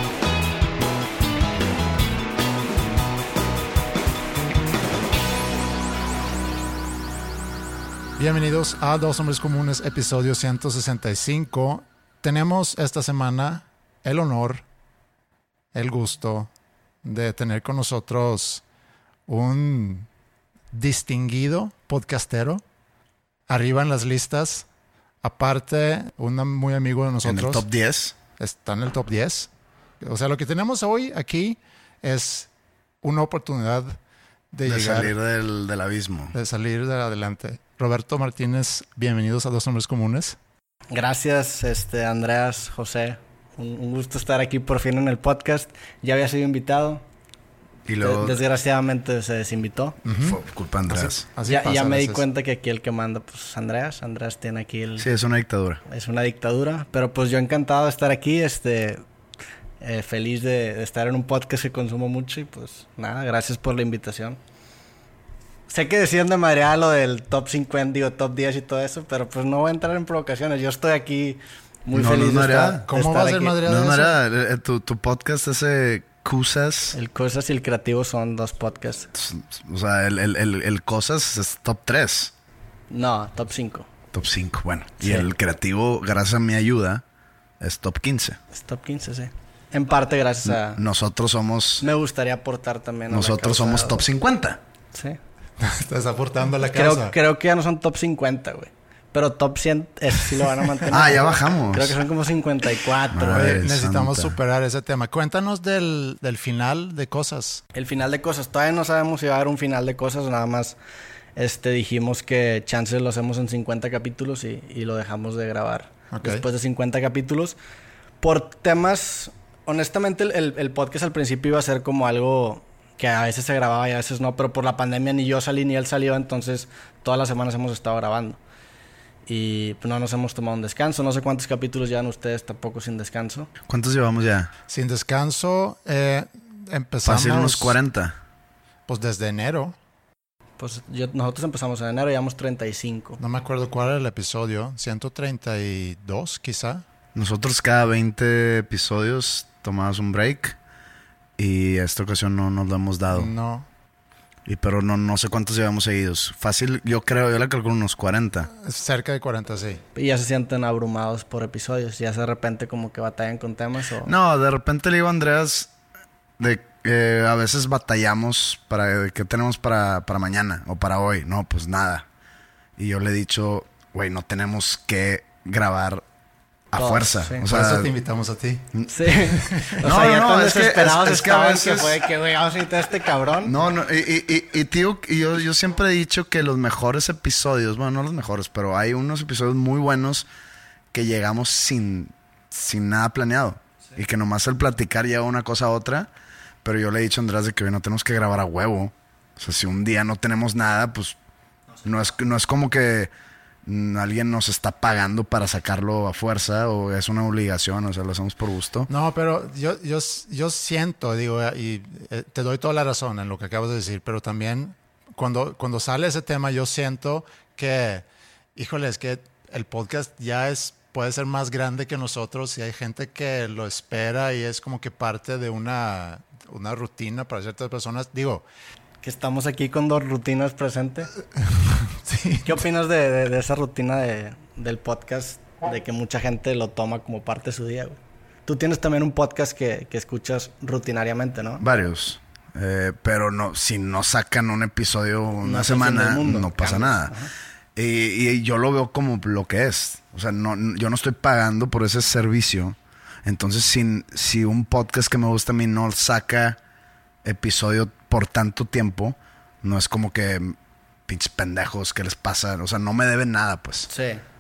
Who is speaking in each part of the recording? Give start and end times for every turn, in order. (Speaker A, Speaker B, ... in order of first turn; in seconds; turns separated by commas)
Speaker A: 8.2-14.6, Speaker A: 15.7-16.5, Speaker A: 17.0-18.6, Speaker A: 19.3-20.1, Speaker A: 20.7-22.6, Speaker A: 23.5-24.7, Speaker A: 25.2-27.6, Speaker B: 27.2-28.1, Speaker A: 28.4-29.5, Speaker A: 30.0-32.5, Speaker A: 33.0-34.0, Speaker A: 34.5-35.1, Speaker B: 34.7-36.4, Speaker A: 36.3-40.4, Speaker C: 40.9-47.0, Speaker B: 47.9-48.4, Speaker C: 48.0-50.0, Speaker A: 50.0-52.2, Speaker B: 50.2-51.2, Speaker C: 51.5-55.1, Speaker B: 55.0-55.8, Speaker C: 55.9-59.0, Speaker C: 59.8-64.4, Speaker C: 65.7-73.6, Speaker B: 71.9-72.9, Speaker A: 72.9-74.2, Speaker B: 73.7-76.9, Speaker C: 76.9-79.1, Speaker B: 79.2-82.3, Speaker C: 82.9-83.9, Speaker B: 84.1-87.0, Speaker C: 85.0-85.3, Speaker B: 87.6-88.4, Speaker C: 88.5-90.8, Speaker B: 90.7-91.8, Speaker C: 91.8-94.0, Speaker B: 93.1-94.6, Speaker C: 94.9-95.2, Speaker A: 95.6-97.2, Speaker C: 96.7-103.5, Speaker B: 100.9-102.0, Speaker B: 103.1-104.4, Speaker A: 103.3-107.6, Speaker C: 107.8-110.8, Speaker C: 111.4-117.6, Speaker A: 116.1-116.4, Speaker C: 118.2-128.4, Speaker C: 129.3-133.5, Speaker B: 133.7-134.5, Speaker A: 134.7-137.8, Speaker B: 137.0-138.2, Speaker A: 138.9-139.8, Speaker C: 140.6-143.2, Speaker A: 143.2-146.8, Speaker B: 147.2-150.6, Speaker B: 151.4-153.3, Speaker A: 153.1-153.7, Speaker B: 154.5-158.5, Speaker A: 158.5-159.8, Speaker C: 159.9-164.1, Speaker B: 164.1-165.7, Speaker B: 166.4-172.1, Speaker B: 172.8-176.0, Speaker B: 176.7-177.9, Speaker C: 176.8-177.4, Speaker A: 177.4-178.7, Speaker C: 178.9-183.5, Speaker A: 179.5-179.8, Speaker B: 179.8-182.1, Speaker B: 183.4-190.3, Speaker B: 190.9-196.1, Speaker B: 196.6-201.2, Speaker B: 201.8-203.1, Speaker B: 203.7-208.9, Speaker A: 208.9-228.5, Speaker C: 229.0-231.1, Speaker A: 231.4-232.6, Speaker C: 232.4-241.6, Speaker B: 241.6-247.2, Speaker C: 245.4-247.3, Speaker B: 247.8-256.6, Speaker B: 257.2-260.6, Speaker B: 261.1-263.9, Speaker C: 263.9-264.2